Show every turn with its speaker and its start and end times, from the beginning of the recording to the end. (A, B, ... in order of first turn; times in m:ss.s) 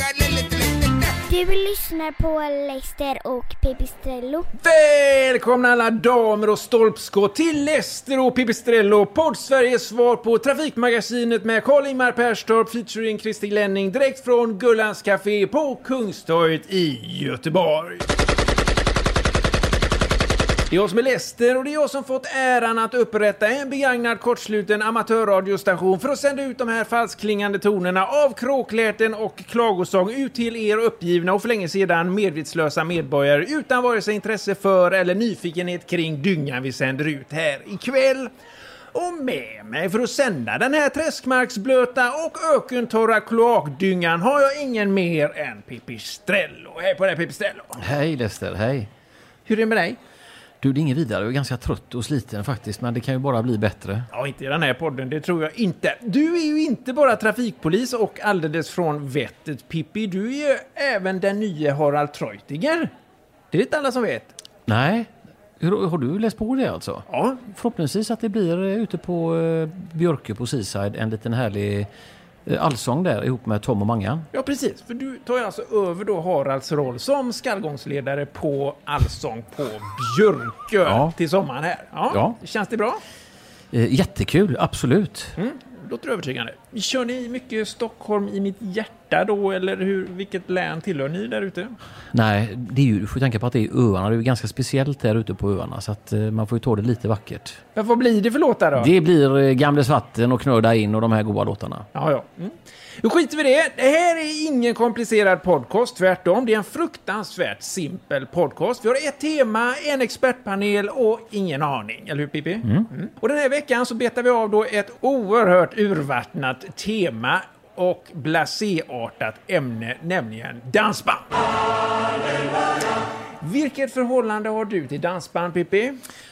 0:01.3-0:04.5 A
0:04.6-0:18.0 B
0:20.7-0:38.3 B
0:38.9-0:47.7 B
0:47.8-0:48.9 C
0:49.5-0:50.0 B
0:50.6-0:54.1 C
0:54.1-1:02.9 B
1:03.5-1:04.3 B
1:04.7-1:11.9 C
1:07.1-1:07.4 B
1:12.5-1:14.3 C
1:14.3-1:23.0 B
1:20.8-1:21.1 C
1:22.1-1:22.4 C
1:23.7-1:25.3 C
1:25.4-1:31.8 B
1:32.1-1:37.6 C
1:37.8-1:38.9 B
1:38.8-1:41.9 C
1:41.9-2:01.3 B
2:03.4-2:06.0 B